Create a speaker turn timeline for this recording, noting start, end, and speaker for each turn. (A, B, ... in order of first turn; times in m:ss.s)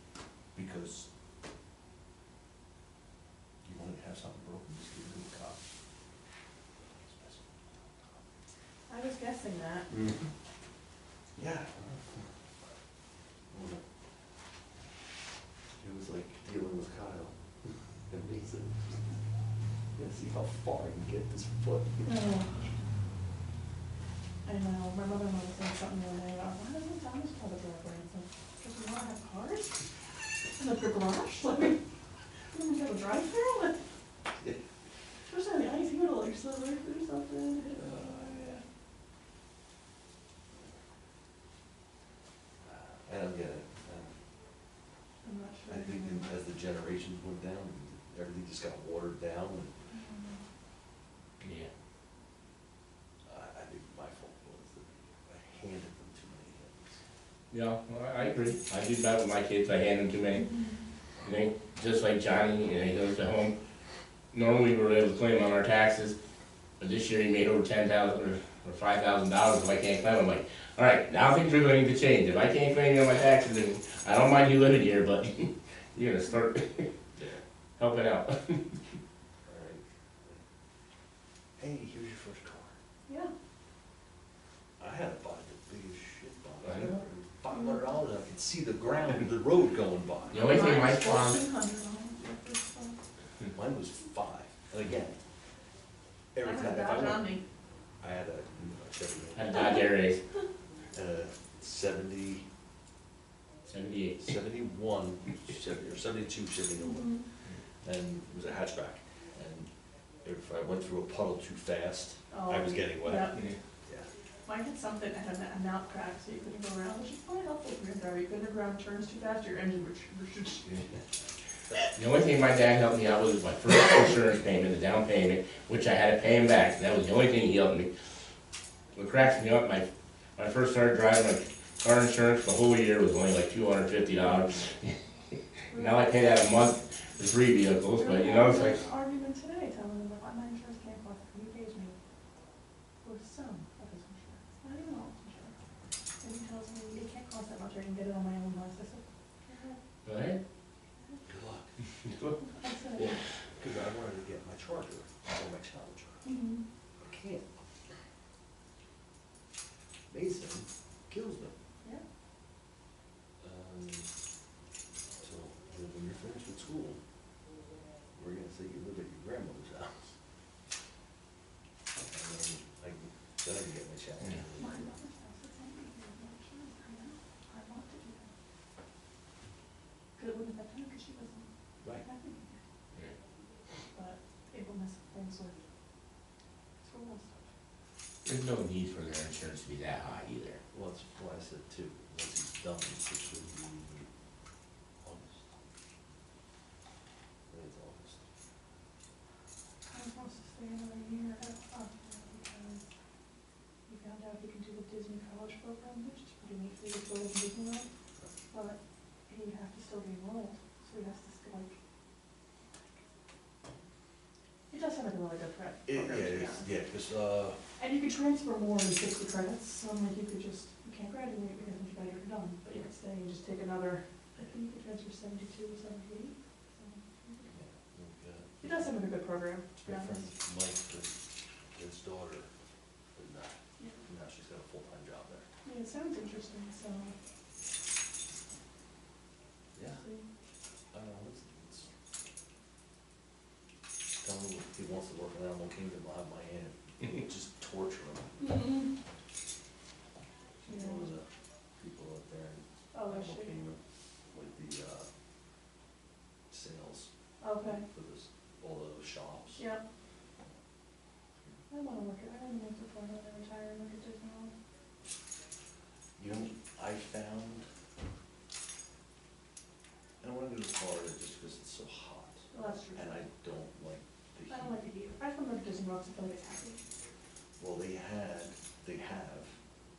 0:00.5-0:01.1 A
0:03.6-0:05.6 A
0:06.8-0:08.2 A
0:08.9-0:09.9 B
0:09.9-0:10.3 A
0:11.4-0:12.3 A
0:13.5-0:13.8 A
0:15.8-0:19.0 A
0:20.0-0:22.1 A
0:22.0-0:22.5 B
0:24.4-0:29.8 B
0:30.5-0:31.8 B
0:32.5-0:33.9 B
0:34.4-0:34.6 A
0:35.3-0:38.6 B
0:37.7-0:38.6 A
0:42.6-0:44.1 A
0:45.2-0:46.3 B
0:45.7-0:49.7 A
0:49.9-0:50.4 B
0:51.4-0:51.7 C
0:53.3-0:57.0 A
0:57.5-1:00.5 C
1:01.2-1:03.5 C
1:04.3-1:06.2 C
1:06.8-1:16.9 C
1:17.2-1:17.4 A
1:17.8-1:18.8 C
1:19.5-1:20.4 A
1:21.6-1:22.7 A
1:23.1-1:23.3 B
1:24.8-1:30.6 A
1:26.6-1:27.0 C
1:27.5-1:27.8 B
1:30.3-1:31.4 C
1:30.3-1:33.0 B
1:33.5-1:35.2 A
1:36.3-1:37.4 A
1:36.4-1:37.4 B
1:38.0-1:39.8 A
1:39.4-1:40.2 C
1:40.9-1:42.5 A
1:43.7-1:44.3 C
1:44.2-1:47.1 A
1:46.8-1:47.2 B
1:47.8-1:49.7 A
1:50.2-1:54.1 A
1:52.3-1:53.5 B
1:54.4-2:00.9 B
2:01.9-2:07.9 C
2:08.9-2:15.0 C
2:15.7-2:18.8 C
2:15.7-2:16.1 B
2:18.0-2:22.0 B
2:23.0-2:25.5 B
2:26.2-2:29.8 B
2:30.0-2:30.4 C
2:31.0-2:31.2 B
2:31.2-2:31.7 A
2:32.0-2:32.4 C
2:32.4-2:33.2 B
2:33.6-2:36.2 A
2:36.2-2:36.6 B
2:37.0-2:37.4 A
2:40.1-2:41.5 A
2:43.4-2:44.1 A
2:45.2-2:47.0 A
2:48.1-2:50.1 A
2:52.1-2:55.0 A
2:54.6-2:58.3 B
3:00.2-3:02.6 B
3:03.9-3:05.6 B
3:06.8-3:07.5 B
3:08.2-3:10.6 C
3:10.7-3:14.1 A
3:15.0-3:15.5 A
3:17.5-3:18.2 A
3:19.8-3:22.8 B
3:23.9-3:27.9 B
3:28.5-3:28.8 B
3:29.3-3:31.8 B
3:34.7-3:36.7 B
3:35.9-3:37.6 A
3:37.8-3:47.5 B
3:47.5-3:48.9 A
3:48.6-3:50.3 B
3:49.7-3:51.1 A
3:51.7-3:52.5 A
3:53.1-3:55.5 A
3:55.6-3:57.1 B
3:59.8-4:00.0 A
3:59.9-4:00.3 B
4:00.9-4:01.9 A
4:04.2-4:08.4 A
4:08.4-4:08.9 B
4:10.6-4:15.1 A
4:10.7-4:11.1 B
4:12.9-4:13.6 B
4:16.5-4:17.1 A
4:17.4-4:17.8 B
4:17.6-4:19.7 A
4:19.6-4:19.8 B
4:21.7-4:24.5 B
4:26.2-4:27.7 A
4:30.2-4:34.8 A
4:32.5-4:33.2 B
4:34.5-4:36.8 B
4:37.6-4:39.5 A